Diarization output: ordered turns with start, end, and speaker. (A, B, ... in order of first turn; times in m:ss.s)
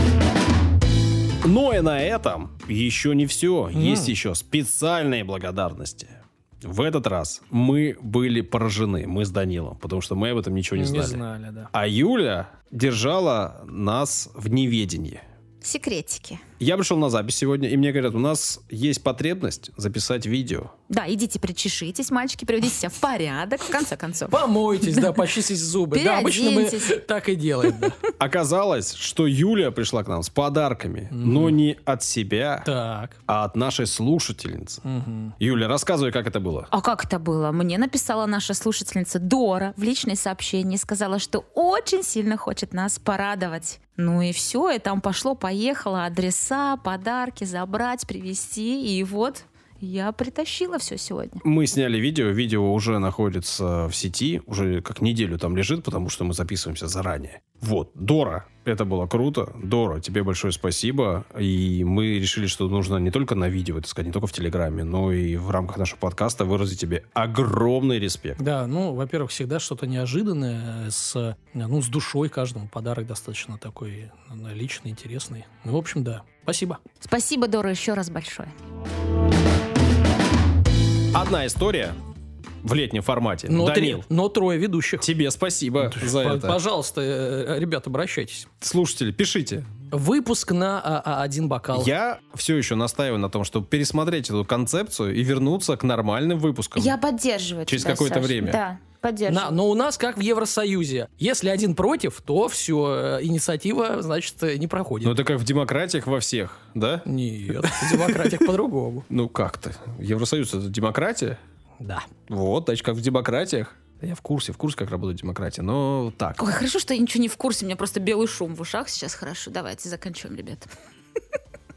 0:01.4-0:15.2 A
0:03.7-0:04.2 B
0:10.7-0:11.7 B
0:15.6-0:16.4 C
0:16.6-0:20.7 A
0:20.9-0:25.3 C
0:24.3-0:28.0 B
0:25.9-0:27.0 C
0:28.2-0:32.7 A
0:31.1-0:31.6 B
0:32.6-0:33.2 B
0:33.2-0:34.8 A
0:34.8-0:35.3 B
0:35.4-0:36.7 A
0:36.7-0:51.4 C
0:51.4-1:08.4 A
1:08.4-1:16.8 B
1:17.0-1:18.5 C
1:21.1-1:22.0 A
1:22.6-1:24.0 A
1:23.5-1:25.1 B
1:25.0-1:26.6 A
1:25.8-1:28.5 B
1:28.6-1:29.7 A
1:29.9-1:31.9 B
1:31.7-1:37.0 A
1:36.8-1:39.6 C
1:37.7-1:38.6 A
1:39.3-1:45.2 B
1:45.0-1:48.3 A
1:47.1-1:49.1 B
1:49.1-1:51.4 A
1:51.8-1:52.1 B
1:52.3-1:56.5 A
1:56.4-2:00.7 C